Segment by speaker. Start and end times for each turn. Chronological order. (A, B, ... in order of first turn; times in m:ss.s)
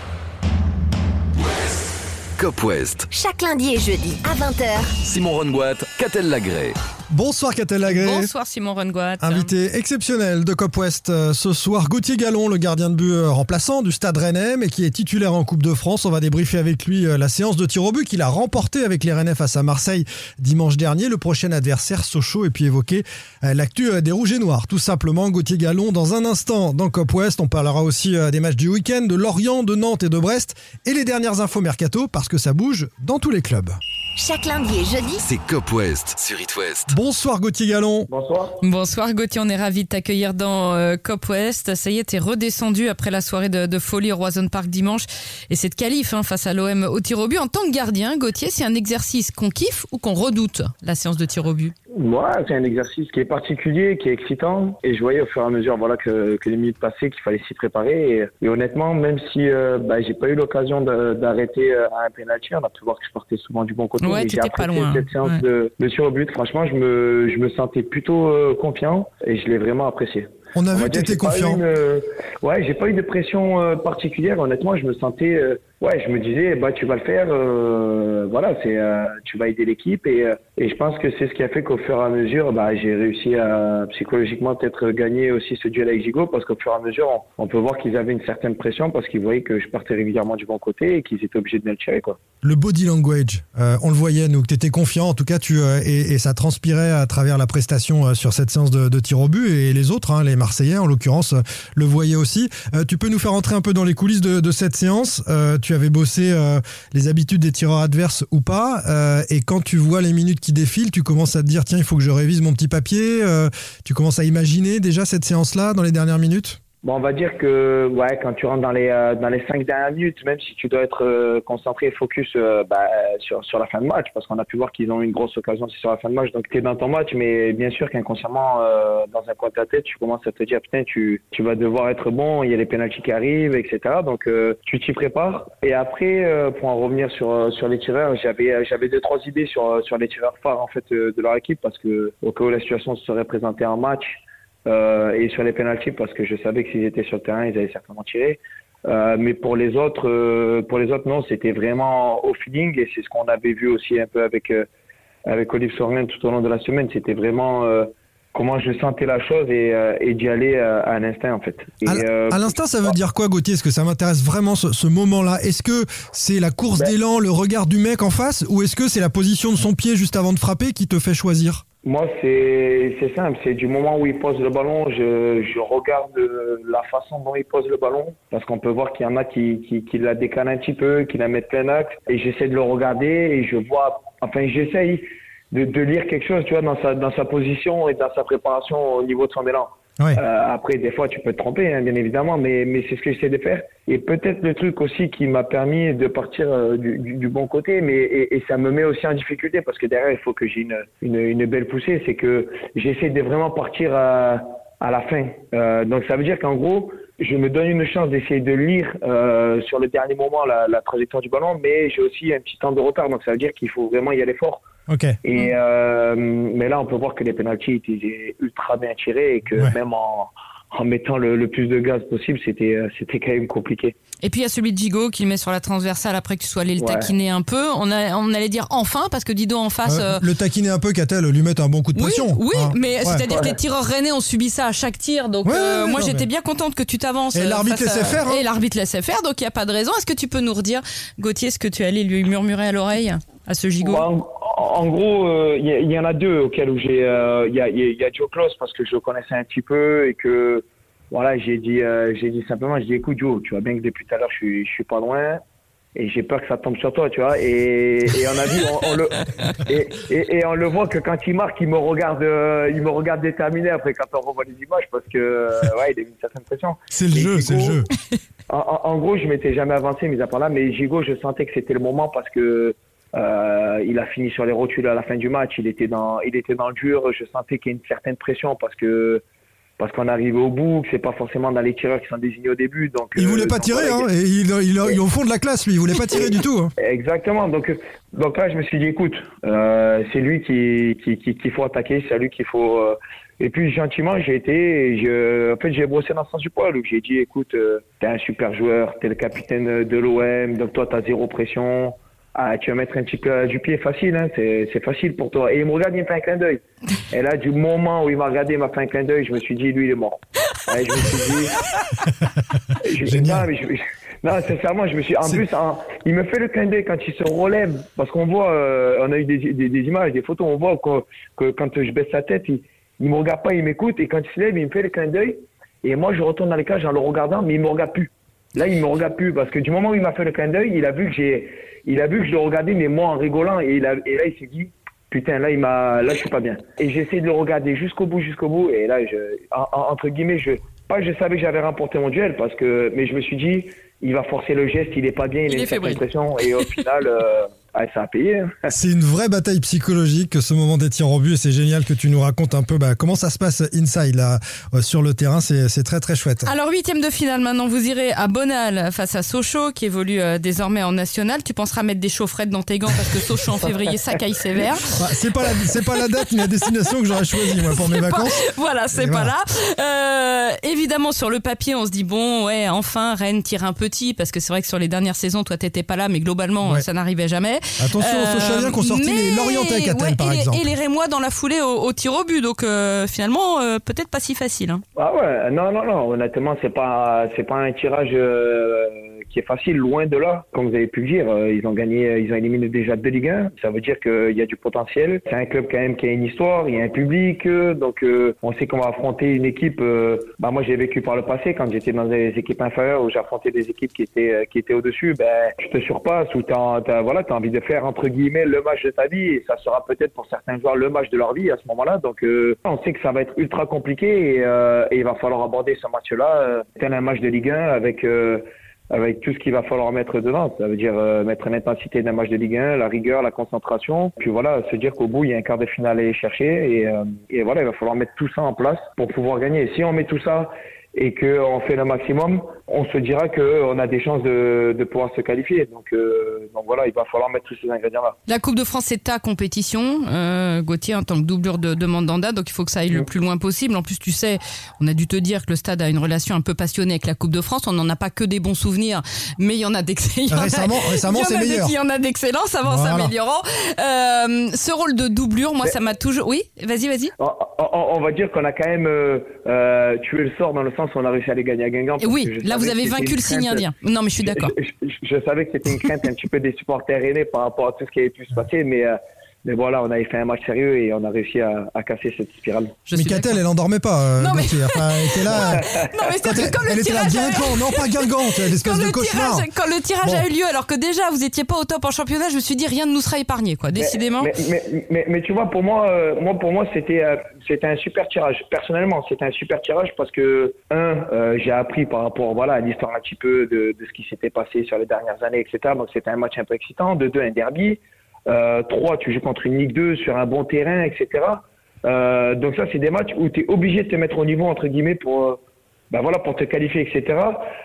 0:02.4-0:03.1 A
0:03.1-0:04.9 B
0:05.0-0:06.8 A
0:07.1-0:08.3 C
0:07.8-0:09.5 D
0:09.2-0:33.8 C
0:34.2-0:35.2 B
0:35.2-0:36.9 A
0:36.9-0:38.1 C
0:38.1-0:38.6 E
0:38.6-0:51.7 D
0:51.9-1:32.2 E
1:04.0-1:05.4 D
1:10.5-1:11.6 C
1:32.4-1:56.6 C
1:56.8-2:34.6 E
2:35.2-2:42.9 E
2:41.8-2:51.6 C
2:51.8-3:34.6 E
3:34.9-3:35.2 C
3:35.2-3:43.9 E
3:44.2-3:50.2 D
3:46.8-3:47.1 E
3:49.8-3:53.3 C
3:51.9-4:04.0 D
3:53.3-3:53.6 E
3:55.4-3:56.2 C
3:57.3-3:58.4 C
4:03.8-4:15.4 E
4:15.9-4:27.8 E
4:26.9-4:27.9 C
4:28.5-4:39.2 E
4:39.8-4:44.1 E
4:43.2-4:46.7 C
4:46.8-5:11.6 E
5:12.1-5:13.5 C
5:12.8-5:48.7 E
5:45.5-5:46.8 D
5:48.7-5:56.5 C
5:56.4-6:05.0 D
6:04.9-6:08.4 C
6:05.6-6:24.8 D
6:08.9-6:09.3 C
6:17.8-6:20.7 C
6:25.0-7:18.1 E
7:18.3-7:37.1 D
7:30.3-7:31.8 C
7:32.6-7:33.1 C
7:37.2-7:43.7 E
7:42.0-7:44.5 D
7:44.2-7:52.8 E
7:52.8-7:53.4 D
7:52.9-7:55.6 C
7:54.2-8:04.3 D
7:55.3-7:55.9 E
7:56.2-7:59.4 C
8:03.7-8:25.4 E
8:25.9-8:27.4 E